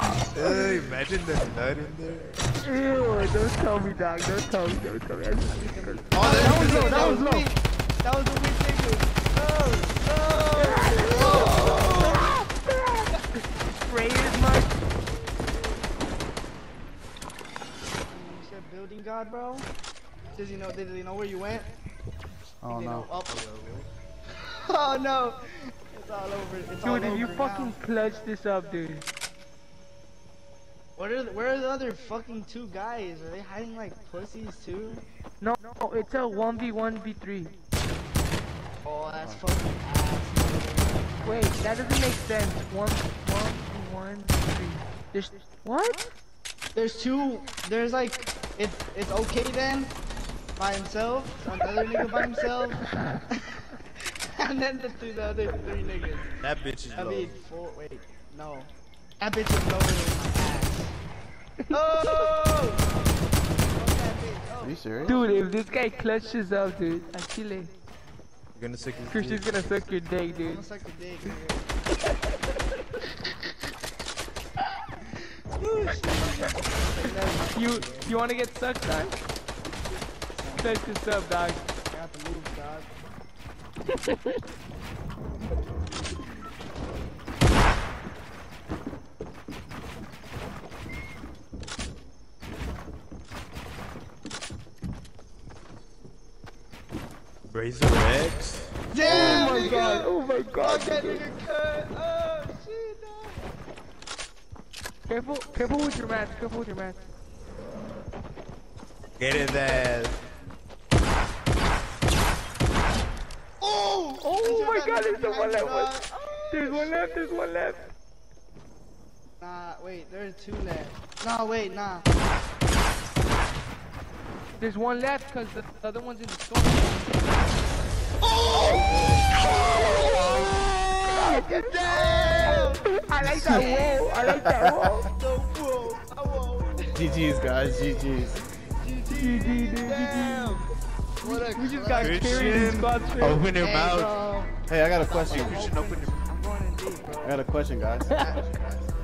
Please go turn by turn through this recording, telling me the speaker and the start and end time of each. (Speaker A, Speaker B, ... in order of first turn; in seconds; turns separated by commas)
Speaker A: 0.3-0.9, Speaker B: 0.4-2.2, Speaker A: 2.6-7.5, Speaker C: 5.7-12.4, Speaker B: 6.1-7.2, Speaker A: 10.6-13.0, Speaker A: 13.8-14.8, Speaker C: 18.1-19.7, Speaker C: 20.4-21.7, Speaker D: 22.6-23.1, Speaker C: 22.7-23.5, Speaker B: 23.3-23.9, Speaker C: 24.5-27.8, Speaker A: 26.8-29.1, Speaker C: 31.0-35.0, Speaker A: 35.4-37.6, Speaker C: 38.8-42.1, Speaker A: 41.2-46.1, Speaker C: 46.7-50.0, Speaker C: 50.6-53.4, Speaker C: 54.4-56.3, Speaker B: 56.4-57.3, Speaker C: 56.9-61.0, Speaker A: 61.7-62.3, Speaker C: 61.7-63.0, Speaker C: 63.7-65.4, Speaker D: 64.6-65.2, Speaker A: 65.0-67.7, Speaker B: 68.5-69.5, Speaker A: 69.1-70.7, Speaker C: 70.3-71.7, Speaker C: 75.5-78.2, Speaker A: 77.5-79.2, Speaker C: 80.4-80.8, Speaker A: 80.6-81.7, Speaker C: 81.8-82.9, Speaker A: 83.9-84.3, Speaker B: 97.5-99.6, Speaker C: 98.9-103.5, Speaker A: 99.0-101.3, Speaker A: 105.1-107.0, Speaker B: 109.2-110.1, Speaker C: 109.3-109.9, Speaker C: 113.6-117.0, Speaker A: 114.2-117.9, Speaker C: 119.4-122.1, Speaker A: 124.6-127.1, Speaker C: 128.4-132.9, Speaker A: 131.1-135.1, Speaker C: 133.4-134.3, Speaker D: 134.6-134.9, Speaker C: 135.0-137.0, Speaker D: 136.9-138.4, Speaker C: 138.8-140.7, Speaker A: 139.1-140.6, Speaker C: 141.2-142.9, Speaker A: 141.2-143.8, Speaker B: 142.0-144.1, Speaker C: 143.5-147.4, Speaker D: 144.7-145.7, Speaker D: 147.2-148.8, Speaker C: 148.2-148.5